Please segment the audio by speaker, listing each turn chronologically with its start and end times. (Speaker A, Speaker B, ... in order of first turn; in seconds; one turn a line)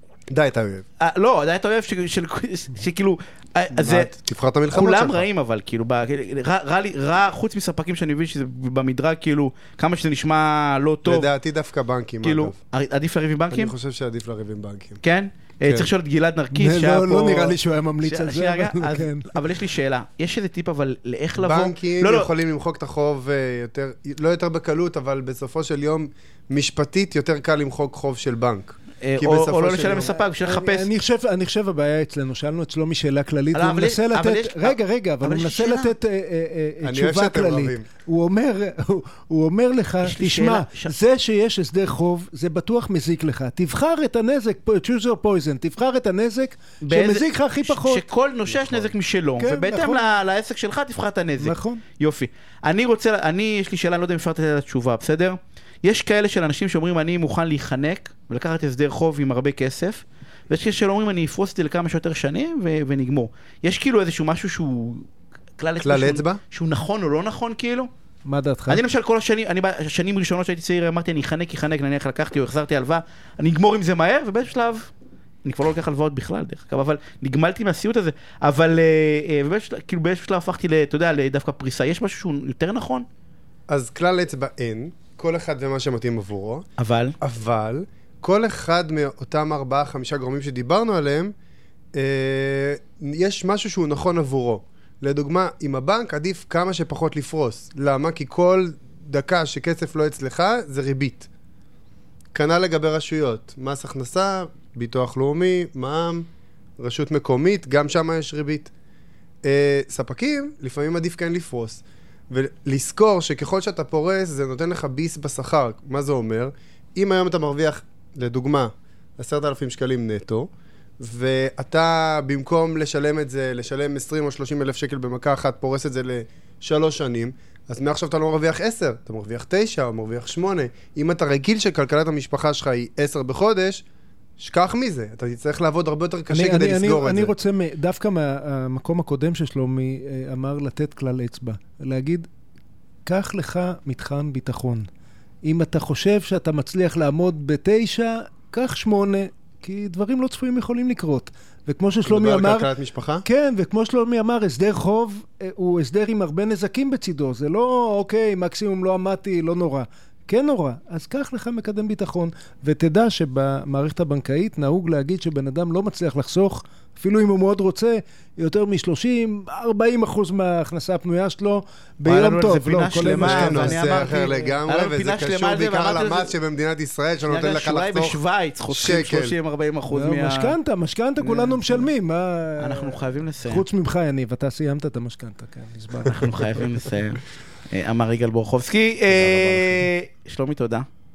Speaker A: 0.3-0.8
Speaker B: 1.0-4.1
Speaker A: 3.8-5.3
Speaker B: 4.7-11.3
Speaker A: 11.1-12.6
Speaker B: 12.2-13.7
Speaker A: 13.5-15.0
Speaker B: 15.0-22.3
Speaker A: 15.6-15.9
Speaker C: 16.5-19.4
Speaker A: 21.4-30.1
Speaker B: 29.0-30.9
Speaker C: 30.2-48.1
Speaker B: 33.5-35.9
Speaker A: 36.8-37.9
Speaker B: 40.0-41.0
Speaker B: 46.8-65.1
Speaker C: 49.4-50.1
Speaker C: 51.4-51.8
Speaker B: 65.6-67.9
Speaker A: 65.8-66.4
Speaker C: 68.2-68.8
Speaker B: 68.7-74.9
Speaker B: 75.4-83.1
Speaker A: 83.7-86.7
Speaker B: 86.8-87.2
Speaker A: 87.2-91.3
Speaker A: 92.0-101.3
Speaker A: 102.3-106.3
Speaker A: 106.8-108.7
Speaker A: 109.4-133.8
Speaker A: 134.4-137.3
Speaker C: 136.3-142.3
Speaker C: 143.1-144.9
Speaker C: 145.4-152.7
Speaker A: 152.0-153.3
Speaker C: 153.2-174.3
Speaker B: 172.1-176.3
Speaker A: 173.2-179.4
Speaker B: 177.3-180.6
Speaker C: 179.9-186.6
Speaker B: 181.2-181.9
Speaker B: 182.6-183.7
Speaker B: 186.0-190.9